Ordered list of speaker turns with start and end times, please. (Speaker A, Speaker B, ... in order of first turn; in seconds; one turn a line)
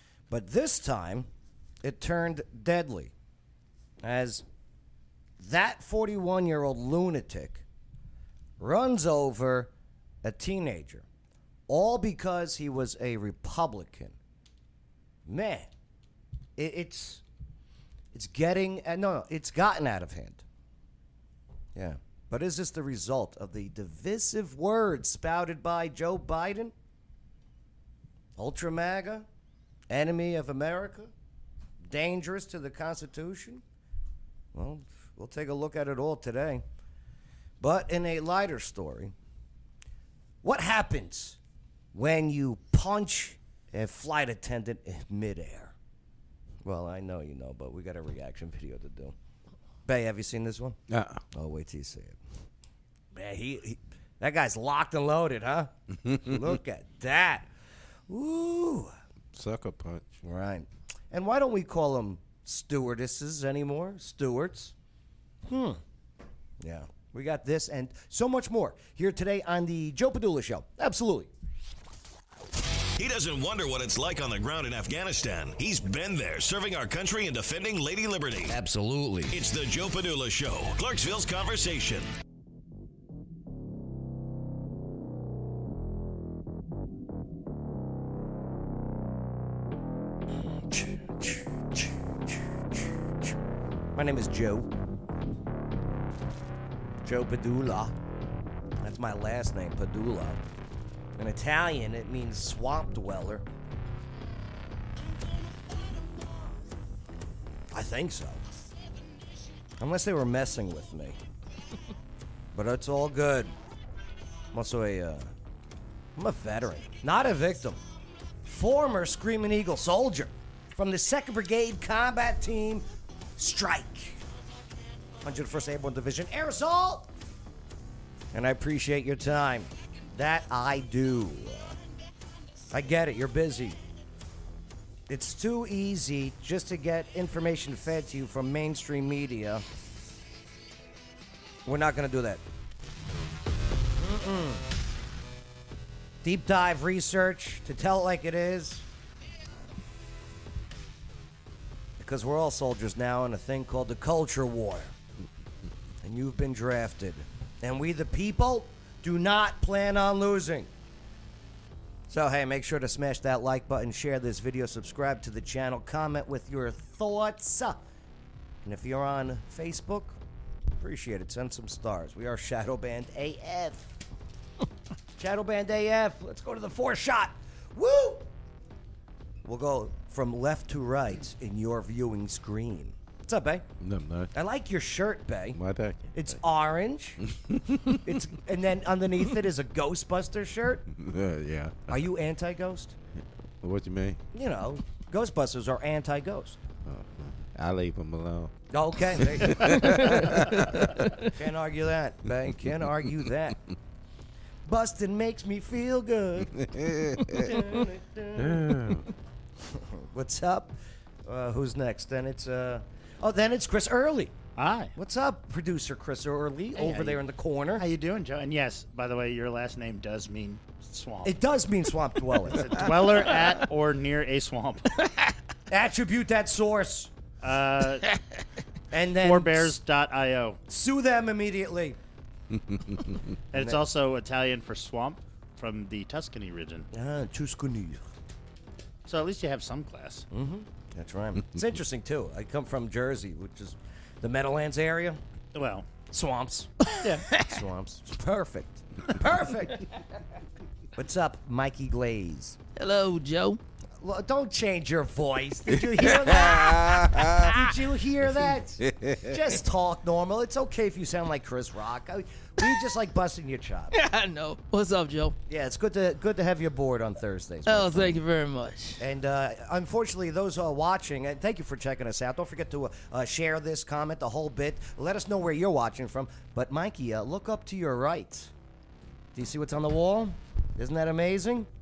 Speaker A: 0.3-1.3
Speaker A: 1.8-3.1
Speaker A: 4.0-4.4
Speaker A: 5.4-7.6
Speaker A: 8.6-9.7
Speaker A: 10.2-11.1
Speaker A: 11.7-14.2
Speaker A: 15.2-15.7
Speaker A: 16.6-17.2
Speaker A: 18.1-20.4
Speaker A: 21.7-26.7
Speaker A: 28.4-29.2
Speaker A: 29.9-31.1
Speaker A: 31.8-33.6
Speaker A: 34.5-36.6
Speaker A: 37.6-39.1
Speaker A: 40.4-41.4
Speaker A: 41.9-45.7
Speaker A: 46.6-49.1
Speaker A: 49.9-50.8
Speaker B: 50.9-51.2
Speaker A: 51.3-52.2
Speaker A: 53.1-57.5
Speaker A: 58.1-58.9
Speaker B: 59.3-60.0
Speaker A: 60.2-64.7
Speaker A: 65.4-65.8
Speaker A: 66.6-71.3
Speaker C: 73.0-78.5
Speaker A: 78.5-79.4
Speaker C: 79.3-82.0
Speaker A: 90.7-91.9
Speaker A: 93.9-94.7
Speaker A: 97.0-97.9
Speaker A: 98.8-100.4
Speaker A: 101.2-103.4
Speaker A: 107.7-108.4
Speaker A: 109.8-111.2
Speaker A: 112.5-113.5
Speaker A: 114.5-115.3
Speaker A: 116.2-117.8
Speaker A: 118.5-122.8
Speaker A: 123.4-124.2
Speaker A: 125.2-127.1
Speaker A: 128.3-131.8
Speaker A: 132.7-133.8
Speaker A: 135.1-139.6
Speaker A: 141.6-142.4
Speaker A: 144.0-144.7
Speaker A: 146.2-148.8
Speaker A: 152.0-154.9
Speaker A: 156.0-160.7
Speaker A: 162.1-167.8
Speaker A: 168.6-170.2
Speaker A: 170.8-173.9
Speaker A: 175.2-178.3
Speaker A: 179.4-183.7
Speaker B: 183.8-184.3
Speaker A: 184.3-185.6
Speaker B: 185.5-186.4
Speaker A: 186.1-187.2
Speaker B: 187.3-188.0
Speaker A: 187.9-190.8
Speaker B: 190.9-192.1
Speaker A: 191.9-192.9
Speaker B: 193.6-194.2
Speaker A: 194.3-196.6
Speaker B: 196.8-198.5
Speaker A: 198.7-203.6
Speaker B: 199.1-200.8
Speaker B: 202.4-202.7
Speaker A: 204.7-209.0
Speaker B: 206.6-207.6
Speaker B: 208.4-209.1
Speaker A: 209.6-214.3
Speaker D: 214.6-214.9
Speaker A: 214.9-217.8
Speaker D: 216.7-217.2
Speaker D: 217.8-221.3
Speaker A: 221.2-222.9
Speaker D: 222.5-225.0
Speaker A: 225.7-227.1
Speaker D: 227.4-228.1
Speaker A: 228.9-229.8
Speaker D: 229.2-230.6
Speaker A: 230.7-232.0
Speaker B: 232.5-233.2
Speaker D: 233.5-236.9
Speaker A: 233.5-233.8
Speaker A: 236.9-238.0
Speaker D: 239.0-240.2
Speaker A: 240.3-245.2
Speaker D: 245.5-245.9
Speaker A: 246.1-249.9
Speaker D: 247.0-247.3
Speaker A: 250.9-252.6
Speaker E: 252.8-253.6
Speaker A: 254.0-263.9
Speaker B: 255.8-257.6
Speaker B: 258.8-259.4
Speaker E: 263.9-265.4
Speaker A: 265.5-268.2
Speaker E: 267.7-269.0
Speaker A: 269.0-278.5
Speaker A: 279.3-281.7